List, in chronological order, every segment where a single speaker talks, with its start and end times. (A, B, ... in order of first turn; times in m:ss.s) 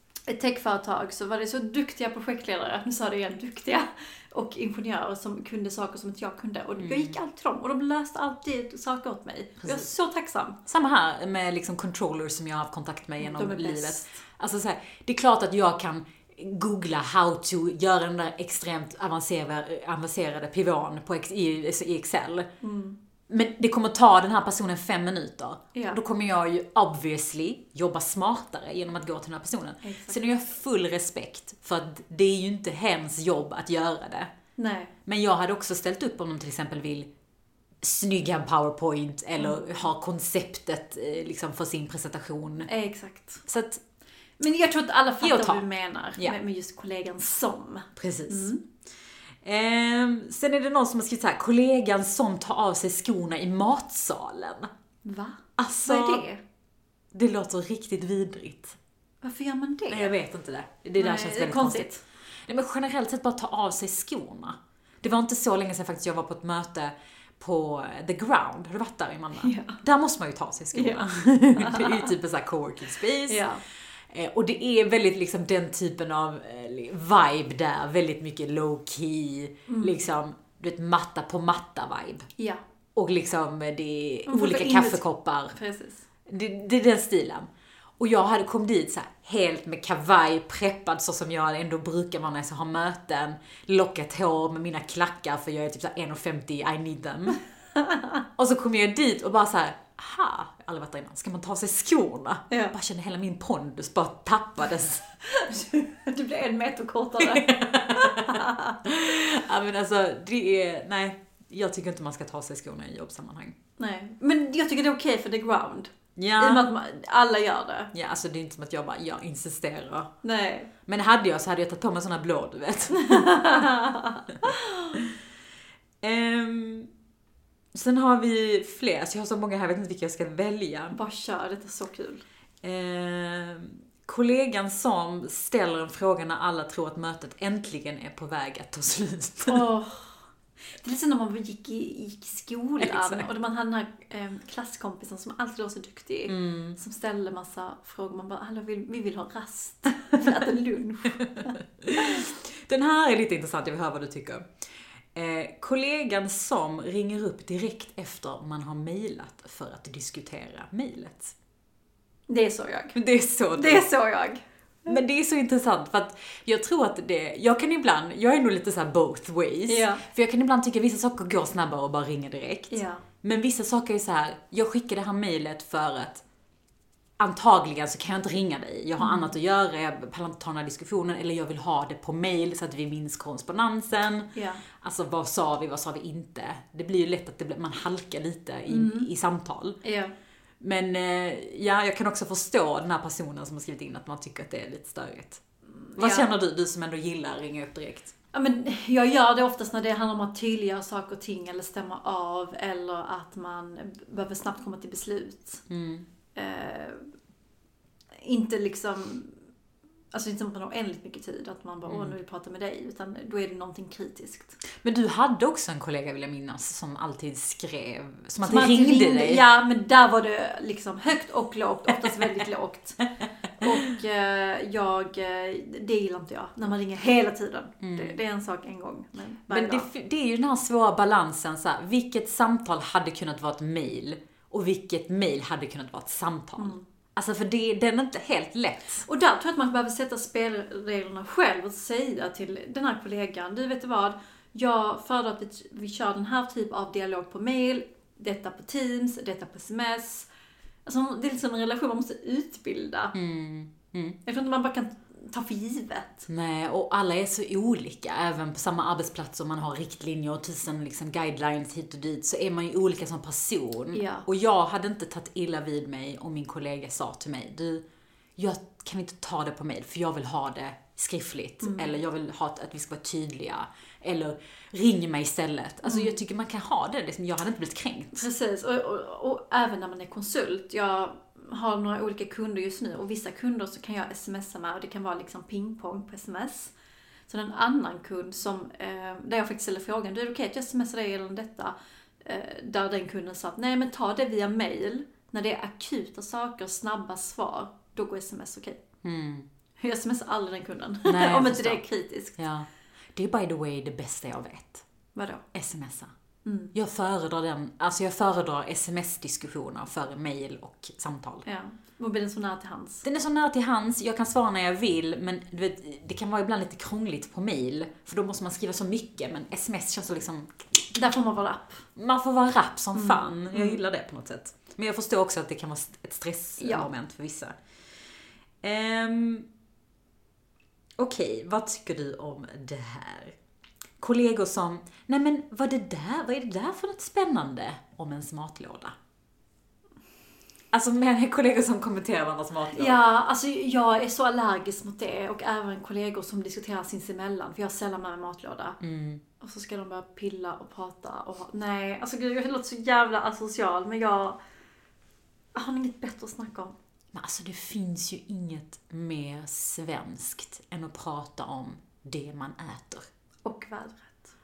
0:00.3-0:10.6 A
0:06.8-0:07.2 B
0:09.6-0:09.9 B
0:10.6-0:22.5 B
0:13.2-0:14.1 A
0:22.6-0:23.0 A
0:23.3-0:34.3 B
0:29.8-0:30.2 A
0:34.6-0:34.9 A
0:35.0-0:37.1 B
0:37.8-0:42.7 B
0:39.4-0:39.8 A
0:42.6-0:43.4 A
0:43.5-0:43.8 B
0:44.4-0:48.6 A
0:45.2-0:45.6 B
0:48.0-0:48.5 B
0:49.4-0:54.7 B
0:55.0-0:56.4 A
0:55.6-0:56.2 B
0:57.1-0:58.8 B
0:59.2-1:00.1 A
0:59.9-1:01.9 B
1:01.0-1:02.0 A
1:02.5-1:13.5 B
1:09.4-1:09.8 A
1:10.7-1:12.1 A
1:13.3-1:13.6 A
1:14.1-1:22.3 B
1:19.7-1:20.0 A
1:23.0-1:25.6 B
1:24.3-1:26.0 A
1:26.3-1:27.5 B
1:28.0-1:37.4 B
1:37.8-1:38.2 A
1:38.4-1:45.1 B
1:45.3-1:48.8 A
1:47.2-1:53.5 B
1:53.8-1:57.9 A
1:56.2-1:56.7 B
1:57.9-2:00.1 B
2:00.2-2:00.7 A
2:00.9-2:03.7 B
2:03.0-2:05.0 A
2:06.0-2:06.9 B
2:07.7-2:11.0 B
2:10.9-2:12.2 A
2:12.6-2:19.6 B
2:19.5-2:20.2 A
2:20.8-2:32.2 A
2:22.8-2:23.3 B
2:26.3-2:26.8 B
2:31.2-2:34.4 B
2:35.1-2:41.3 B
2:42.3-2:43.0 A
2:42.9-2:43.8 B
2:43.6-2:45.0 A
2:44.9-2:56.2 B
2:49.7-2:50.0 A
2:52.7-2:53.0 A
2:57.2-3:09.8 B
2:59.0-2:59.3 A
3:04.3-3:04.6 A
3:08.7-3:09.1 A
3:09.8-3:10.1 A
3:10.6-3:15.4 B
3:15.8-3:16.3 A
3:16.0-3:18.1 B
3:18.3-3:25.6 A
3:25.7-3:26.1 B
3:26.3-3:27.1 A
3:28.2-3:29.4 A
3:30.1-3:34.6 A
3:31.9-3:32.2 B
3:34.8-3:39.4 B
3:38.4-3:43.0 A
3:43.6-3:49.9 A
3:47.8-3:48.2 B
3:49.5-3:59.0 B
3:56.6-3:56.8 A
3:59.0-4:10.3 A
4:10.8-4:13.1 A
4:13.1-4:14.2 B
4:14.2-4:16.2 A
4:16.3-4:27.8 B
4:23.9-4:24.2 A
4:28.4-4:38.2 B
4:31.6-4:32.0 A
4:35.8-4:36.2 A
4:38.1-4:46.7 A
4:47.3-4:58.8 A
4:59.0-4:59.5 B
4:59.8-5:02.4 A
5:01.0-5:01.8 B
5:02.4-5:04.8 B
5:05.1-5:05.4 A
5:05.5-5:06.1 B
5:06.4-5:06.7 A
5:06.7-5:11.4 B
5:11.4-5:13.0 A
5:13.0-5:20.6 B
5:20.9-5:21.8 A
5:22.0-5:27.5 B
5:22.9-5:23.8 A
5:26.6-5:26.9 A
5:28.6-5:29.4 B
5:31.0-5:33.3 B
5:34.0-5:38.9 B
5:40.7-5:43.0 B
5:42.7-5:48.8 A
5:48.8-5:49.2 B
5:49.4-5:54.4 A
5:55.5-5:56.7 A
5:57.1-6:03.0 B
6:03.4-6:04.3 A